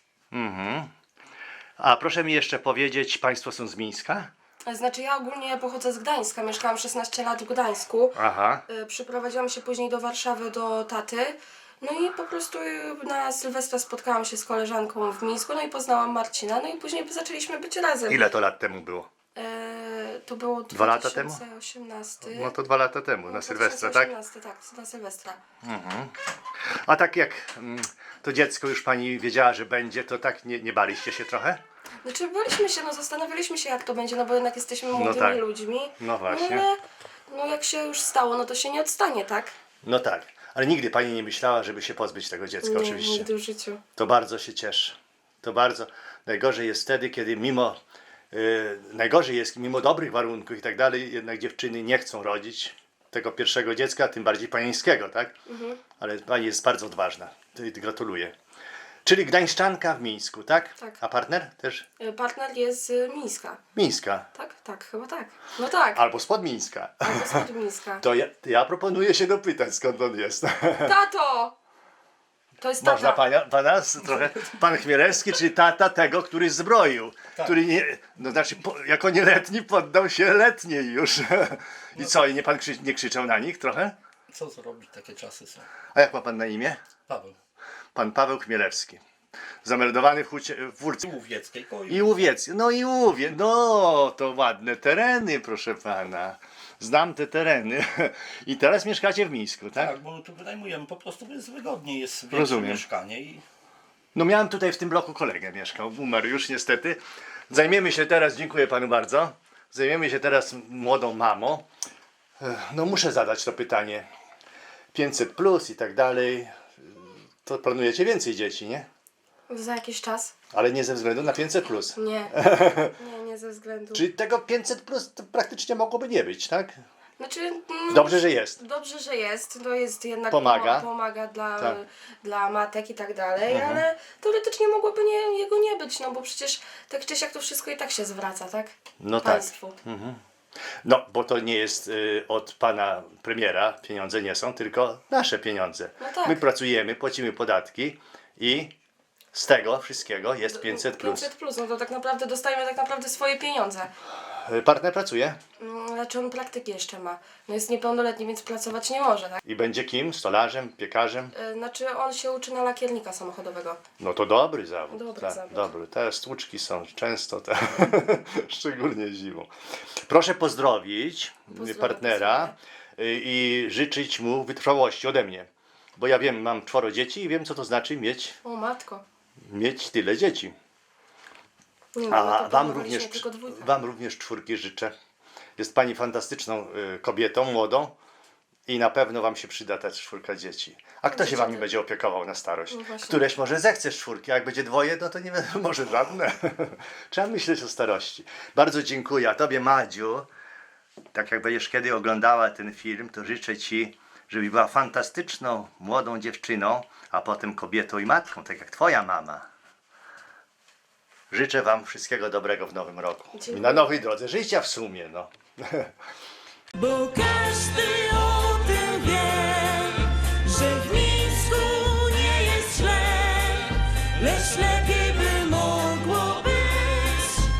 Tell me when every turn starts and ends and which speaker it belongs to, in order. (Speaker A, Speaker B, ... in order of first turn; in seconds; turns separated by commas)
Speaker A: 0.3-0.9, Speaker A: 1.8-4.3, Speaker B: 4.6-8.2, Speaker A: 8.1-8.6, Speaker B: 8.7-18.2, Speaker A: 18.1-19.1, Speaker B: 19.3-22.5, Speaker A: 20.7-21.4, Speaker A: 22.2-24.1, Speaker B: 23.3-25.4, Speaker A: 25.6-26.1, Speaker A: 26.8-31.6, Speaker B: 32.0-39.5, Speaker A: 34.9-35.4, Speaker A: 36.0-36.6, Speaker A: 39.8-43.3, Speaker B: 42.6-43.8, Speaker A: 44.0-47.8, Speaker A: 48.3-55.4, Speaker B: 55.5-55.8, Speaker A: 56.0-58.3, Speaker A: 59.0-61.9, Speaker B: 62.0-63.6, Speaker A: 63.7-64.3, Speaker B: 64.3-66.0, Speaker A: 65.9-67.4, Speaker B: 67.0-68.0, Speaker A: 68.0-71.0, Speaker B: 70.8-71.5, Speaker B: 72.6-73.2, Speaker A: 72.8-83.9, Speaker C: 84.3-85.7, Speaker A: 85.9-86.8, Speaker C: 87.1-87.3, Speaker A: 87.9-89.0, Speaker A: 89.6-91.1, Speaker C: 91.0-92.2, Speaker A: 91.9-99.9, Speaker C: 99.8-103.4, Speaker A: 102.3-102.8, Speaker A: 104.1-107.0, Speaker A: 107.5-111.6, Speaker A: 112.4-114.1, Speaker A: 114.9-118.9, Speaker B: 119.5-120.3, Speaker A: 120.5-122.9, Speaker B: 121.9-124.0, Speaker A: 123.9-126.8, Speaker B: 127.2-139.8, Speaker A: 127.9-128.6, Speaker A: 130.3-130.9, Speaker A: 133.5-133.8, Speaker A: 139.0-140.2, Speaker A: 140.8-148.7, Speaker B: 146.0-146.4, Speaker A: 149.3-151.3, Speaker B: 150.5-153.9, Speaker A: 154.4-155.4, Speaker B: 155.6-159.4, Speaker A: 159.4-161.3, Speaker B: 161.3-163.8, Speaker A: 164.0-169.5, Speaker B: 164.9-165.7, Speaker A: 170.1-178.4, Speaker B: 171.5-172.5, Speaker B: 178.4-179.0, Speaker A: 179.5-180.6, Speaker B: 181.9-183.8, Speaker A: 182.1-184.9, Speaker A: 185.6-187.9, Speaker A: 188.7-200.3, Speaker B: 191.1-191.7, Speaker B: 192.7-193.2, Speaker A: 201.1-209.5, Speaker A: 211.3-215.9, Speaker B: 213.3-213.9, Speaker D: 216.7-227.5